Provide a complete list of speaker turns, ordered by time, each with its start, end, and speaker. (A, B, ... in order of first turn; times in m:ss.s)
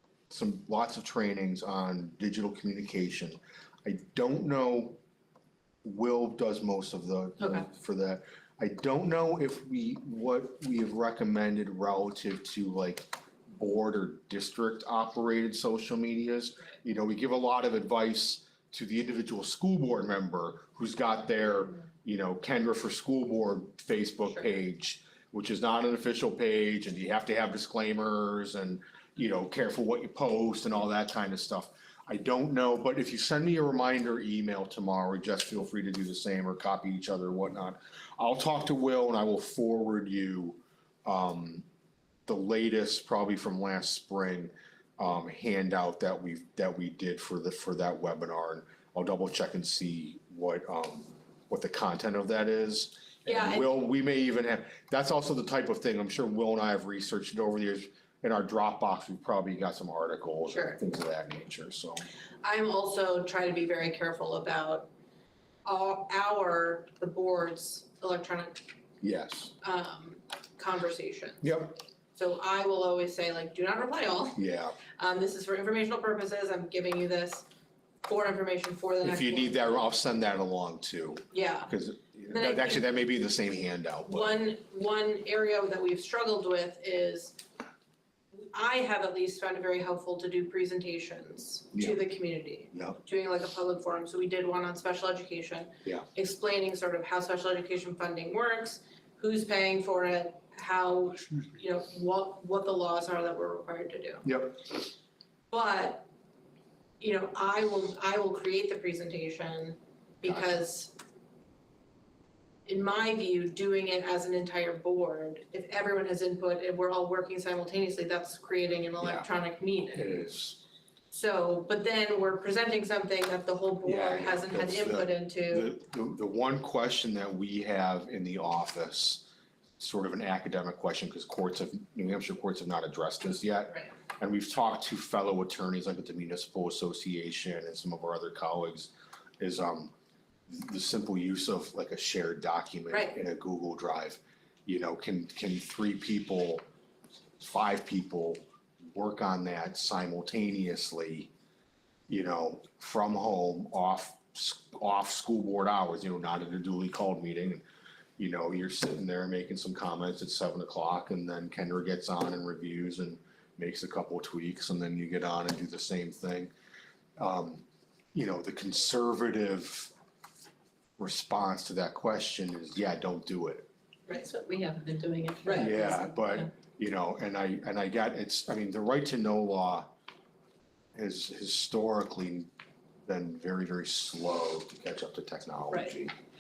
0:00.3-0:05.0 A
0:05.8-0:41.7 A
0:42.3-1:02.0 A
0:53.3-0:53.7 B
1:00.5-1:00.8 B
1:02.4-1:04.9 B
1:05.6-1:08.6 B
1:09.0-1:09.5 A
1:09.6-1:11.6 B
1:11.4-1:11.8 A
1:12.2-1:14.4 B
1:14.4-1:14.8 A
1:14.9-1:17.4 B
1:18.0-1:19.6 B
1:19.0-1:24.4 A
1:21.3-1:21.7 B
1:22.3-1:22.8 B
1:24.1-1:27.4 B
1:28.5-1:44.2 B
1:31.7-1:32.0 A
1:32.7-1:33.0 A
1:44.2-1:44.8 A
1:45.5-1:46.1 B
1:47.0-1:50.9 B
1:52.7-2:00.2 B
1:59.0-1:59.3 A
1:59.9-2:00.6 A
2:01.1-2:05.7 B
2:03.8-2:09.2 A
2:09.8-2:19.9 A
2:20.5-2:26.6 A
2:22.9-2:23.2 B
2:27.4-2:31.3 A
2:32.1-2:37.6 A
2:38.2-2:46.5 A
2:47.2-2:49.9 A
2:51.0-2:53.7 A
2:54.1-2:56.5 C
2:55.4-2:55.8 B
2:55.5-2:59.9 A
3:01.0-3:02.5 A
3:03.1-3:06.1 A